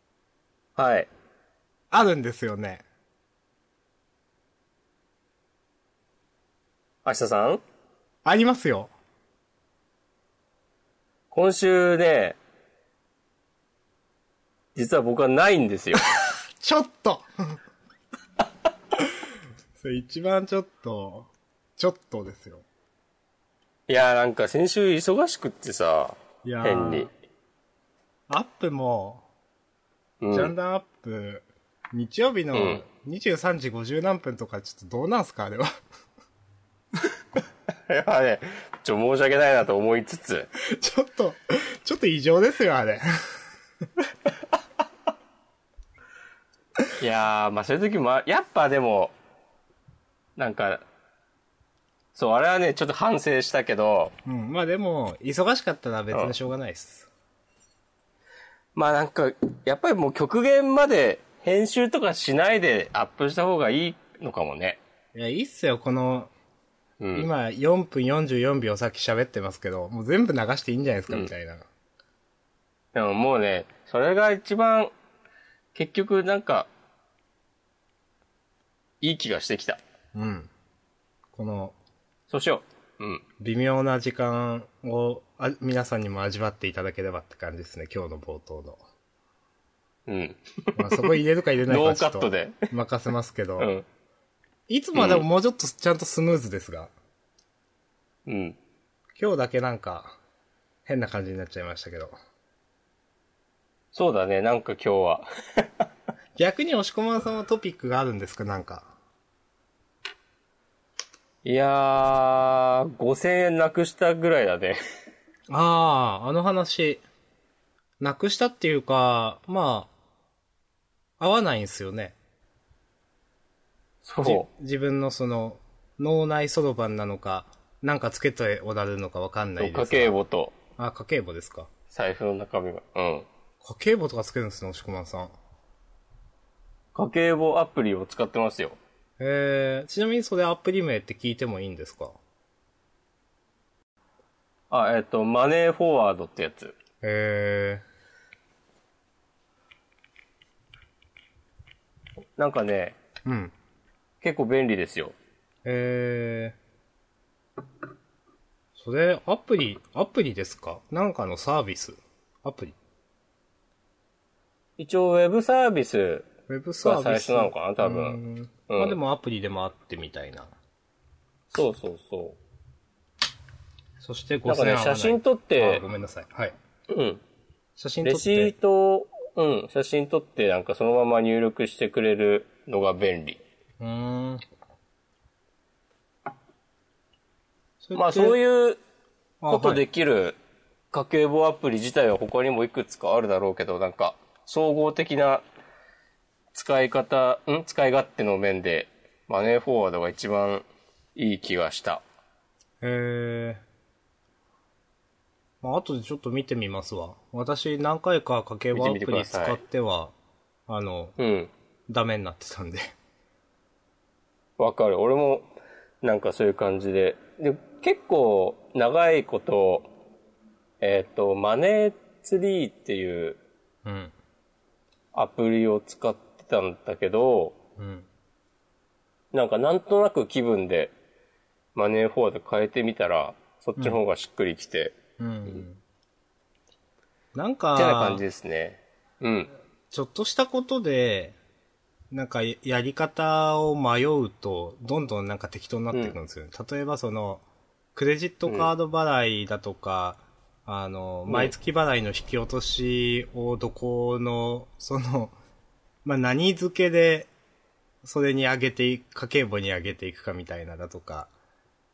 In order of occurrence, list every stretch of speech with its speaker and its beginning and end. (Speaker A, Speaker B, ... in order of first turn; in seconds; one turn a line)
Speaker A: 0.8-1.1
Speaker B: 1.9-2.8
Speaker A: 7.0-7.6
Speaker B: 8.2-8.9
Speaker A: 11.3-12.3
Speaker A: 14.7-16.0
Speaker B: 16.6-17.6
Speaker B: 19.8-22.6
Speaker A: 23.9-27.1
Speaker B: 26.4-27.1
Speaker B: 28.3-29.2
Speaker A: 30.2-30.5
Speaker B: 30.3-35.6
Speaker A: 32.5-32.8
Speaker A: 37.9-40.5
Speaker B: 40.6-43.0
Speaker A: 47.0-49.1
Speaker A: 50.4-50.8
Speaker A: 52.1-54.1
Speaker B: 54.2-57.1
Speaker A: 58.7-64.8
Speaker B: 65.1-66.3
Speaker A: 67.0-67.3
Speaker B: 67.1-71.7
Speaker A: 72.9-74.9
Speaker A: 75.7-76.7
Speaker A: 79.0-79.8
Speaker B: 80.1-80.5
Speaker B: 81.3-81.8
Speaker A: 82.3-83.2
Speaker B: 83.4-88.8
Speaker A: 90.1-92.6
Speaker B: 90.8-93.7
Speaker A: 93.6-93.8
Speaker B: 94.7-96.9
Speaker A: 95.0-95.2
Speaker A: 98.2-98.6
Speaker B: 99.2-100.2
Speaker B: 100.8-102.1
Speaker A: 103.9-105.9
Speaker B: 106.4-108.9
Speaker A: 111.4-114.8
Speaker B: 115.5-117.0
Speaker B: 118.0-119.9
Speaker B: 121.2-122.2
Speaker A: 124.0-124.5
Speaker B: 124.2-130.1
Speaker A: 129.6-130.5
Speaker B: 130.8-131.7
Speaker A: 131.9-133.2
Speaker B: 133.6-135.3
Speaker A: 136.9-138.8
Speaker B: 139.2-142.2
Speaker A: 144.7-146.7
Speaker B: 147.0-147.8
Speaker A: 152.4-152.9
Speaker B: 153.2-153.5
Speaker A: 154.2-155.1
Speaker B: 155.6-156.6
Speaker B: 158.8-162.7
Speaker A: 164.8-166.3
Speaker B: 166.5-170.5
Speaker A: 166.8-169.0
Speaker A: 171.5-172.4
Speaker B: 174.0-176.5
Speaker A: 174.5-175.8
Speaker A: 176.9-177.2
Speaker B: 177.8-178.5
Speaker A: 178.0-183.4
Speaker B: 183.8-184.4
Speaker B: 187.8-188.4
Speaker A: 187.9-188.8
Speaker B: 189.4-189.8
Speaker A: 189.5-190.4
Speaker A: 190.9-195.4
Speaker A: 196.5-202.0
Speaker B: 202.8-203.6
Speaker B: 205.6-210.1
Speaker A: 208.7-209.6
Speaker B: 210.7-211.2
Speaker A: 211.2-211.5
Speaker B: 211.9-212.9
Speaker A: 214.6-215.5
Speaker A: 216.0-219.9
Speaker A: 220.8-223.4
Speaker B: 223.8-224.1
Speaker A: 225.1-227.5
Speaker B: 227.8-228.1
Speaker A: 229.3-230.9
Speaker A: 231.7-234.9
Speaker B: 235.2-235.8
Speaker B: 237.3-238.2
Speaker A: 237.8-239.5
Speaker B: 239.9-241.3
Speaker B: 242.1-247.4
Speaker B: 247.9-255.3
Speaker A: 251.3-251.5
Speaker B: 256.0-257.3
Speaker B: 258.0-261.3